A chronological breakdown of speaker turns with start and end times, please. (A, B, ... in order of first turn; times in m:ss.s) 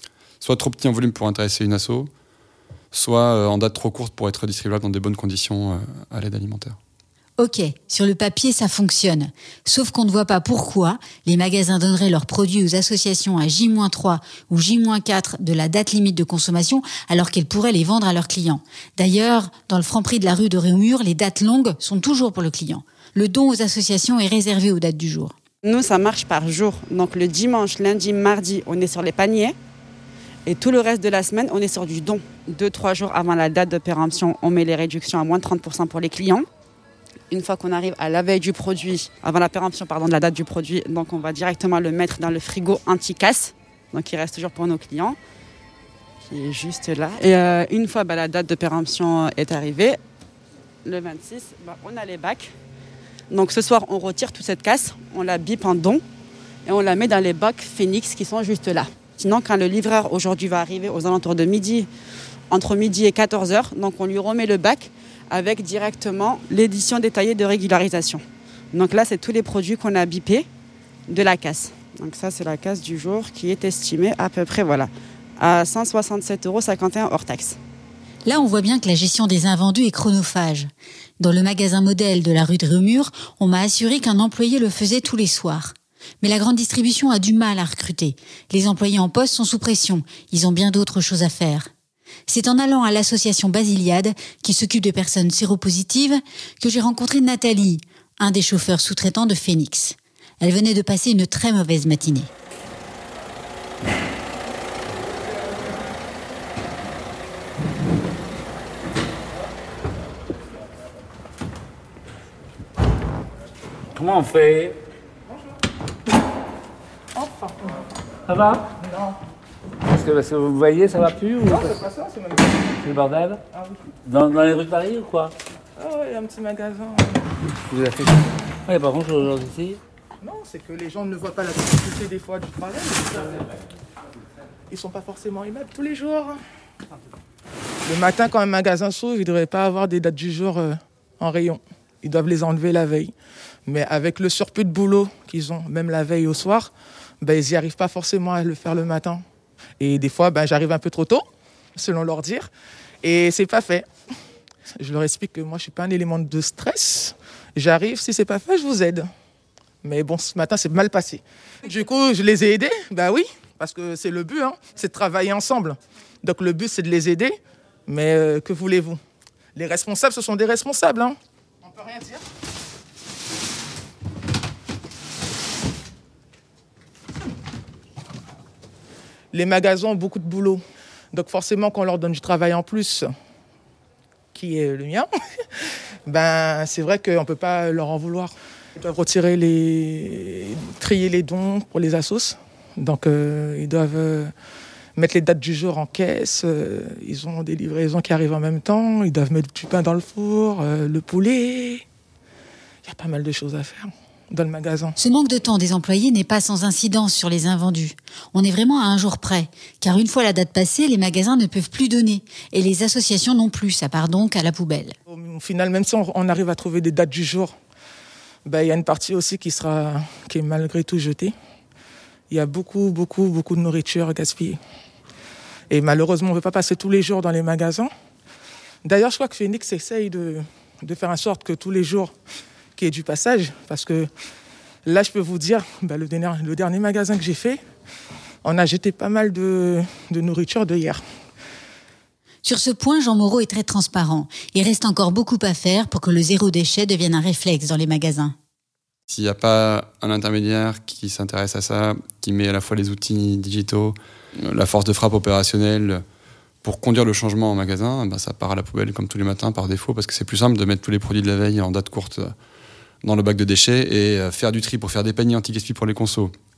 0:00.4-0:02.1 A
0:02.9-0:06.8 A
0:07.4-0:25.4 B
0:25.6-0:29.6 C
0:30.5-0:36.5 C
0:37.3-0:45.2 C
0:46.2-0:50.0 C
0:50.8-0:52.5 C
0:53.3-0:56.0 C
0:56.7-1:01.9 C
1:02.5-1:10.5 C
1:11.1-1:17.6 C
1:18.2-1:31.7 B
1:32.3-1:42.3 B
1:53.9-1:54.8 D
1:57.1-1:57.8 E
1:58.3-1:58.7 D
1:58.8-1:59.2 E
1:59.8-2:01.8 D
2:01.4-2:02.8 E
2:02.8-2:03.4 D
2:03.5-2:03.8 E
2:04.0-2:05.4 D
2:05.8-2:07.3 E
2:07.7-2:09.8 D
2:10.2-2:13.5 E
2:14.7-2:16.4 E
2:17.8-2:23.1 E
2:23.7-2:29.2 E
2:29.8-2:31.2 E
2:31.8-2:32.5 E
2:33.0-2:33.9 E
2:34.8-2:39.1 E
2:39.8-2:47.4 E
2:47.9-2:49.0 E
2:49.6-2:52.2 E
2:59.3-3:03.1 E
3:04.3-3:05.1 E
3:06.1-3:14.3 E
3:15.0-3:21.8 E
3:22.8-3:25.0 E
3:25.0-3:35.0 B
3:35.1-3:37.6 E
3:38.5-3:41.4 E
3:42.3-3:44.6 E
3:45.7-3:47.9 E
3:48.8-3:52.1 E
3:52.8-3:54.1 E
3:54.9-3:57.6 E
3:58.4-4:01.0 E
4:02.4-4:08.4 B
4:09.1-4:16.0 A
4:16.6-4:22.3 A
4:23.0-4:26.3 A